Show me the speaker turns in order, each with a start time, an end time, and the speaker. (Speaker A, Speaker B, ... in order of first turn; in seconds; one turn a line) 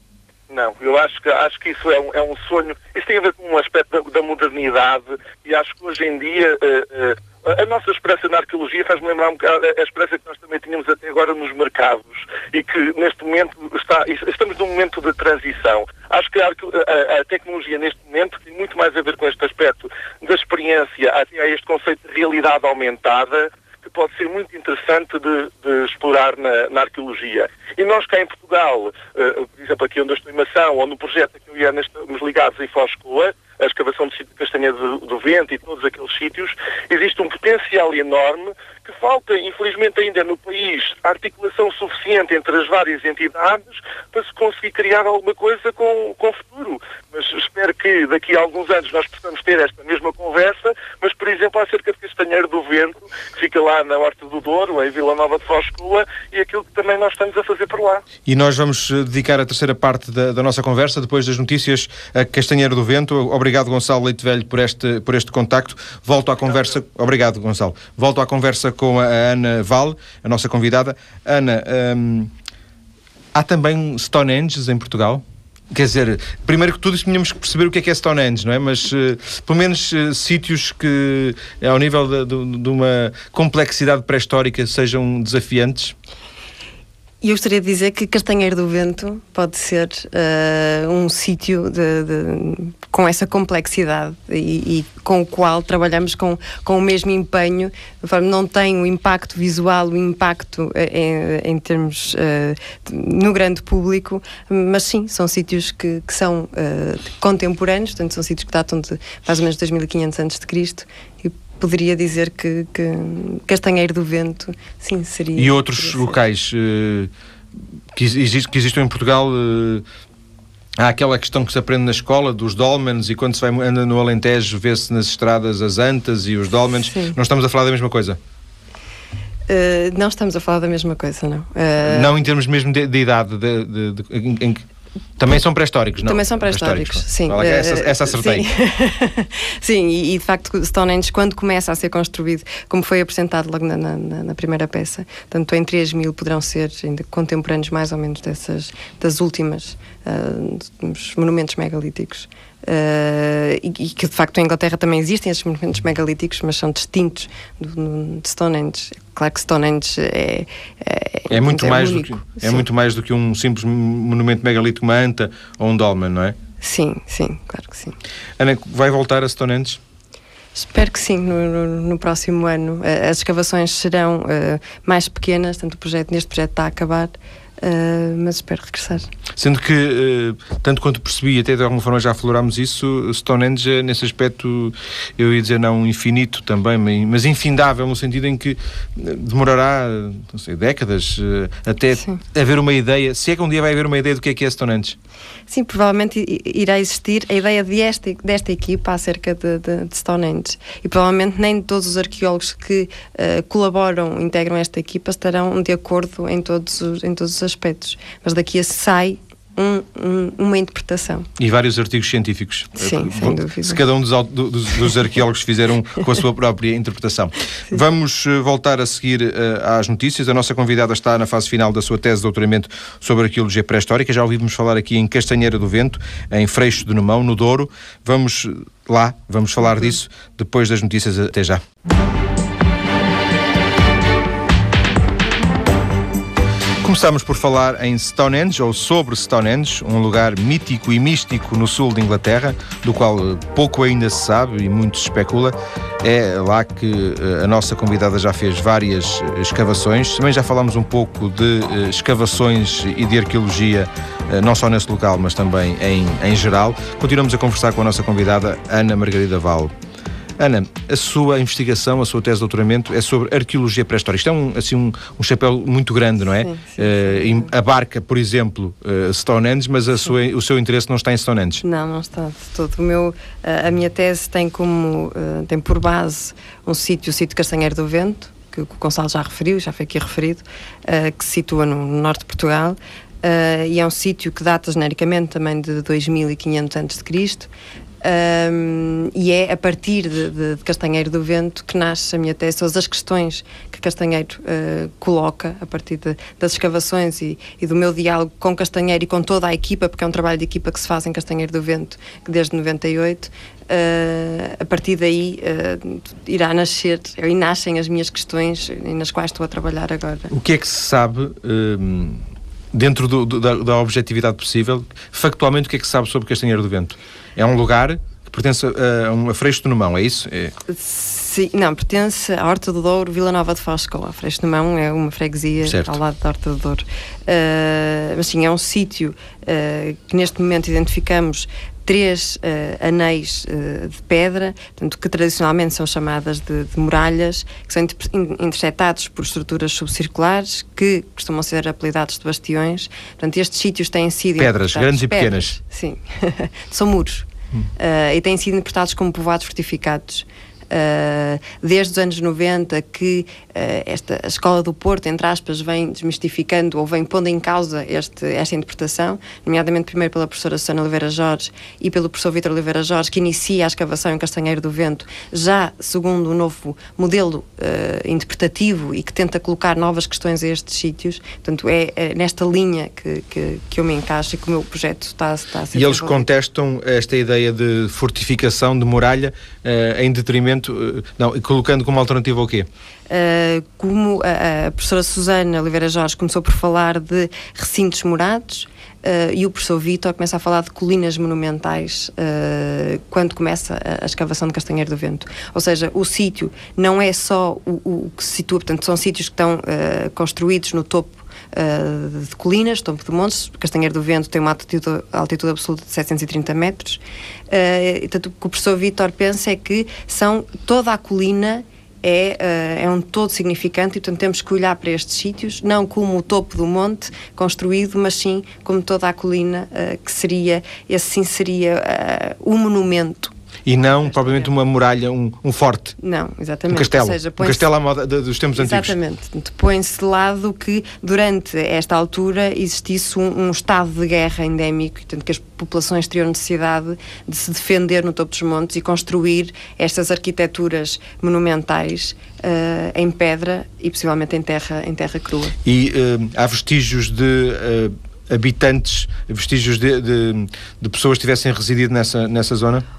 Speaker A: 0.5-58.0
Speaker B: 58.2-72.3
Speaker B: 73.3-85.9
Speaker C: 87.2-116.1
Speaker B: 115.4-117.1
Speaker B: 117.9-119.8
Speaker B: 120.8-128.2
Speaker C: 126.9-127.2
Speaker C: 129.5-132.1
Speaker B: 131.8-134.6
Speaker B: 135.2-138.5
Speaker C: 136.1-162.6
Speaker B: 161.3-166.4
Speaker C: 166.6-167.9
Speaker B: 168.4-169.8
Speaker C: 170.5-179.1
Speaker B: 179.3-195.0
Speaker C: 195.5-211.3
Speaker B: 211.4-231.6
Speaker C: 212.8-213.8
Speaker B: 236.8-259.7
Speaker B: 260.4-271.6
Speaker C: 266.4-267.5
Speaker C: 271.6-287.5
Speaker C: 288.0-310.3
Speaker B: 310.3-320.5
Speaker C: 320.7-376.2
Speaker B: 325.6-326.0
Speaker B: 344.4-345.6
Speaker B: 375.7-382.7
Speaker C: 383.1-423.3
Speaker B: 423.6-426.0
Speaker C: 426.0-427.7
Speaker B: 426.7-428.9
Speaker C: 428.6-445.6
Speaker B: 445.6-452.8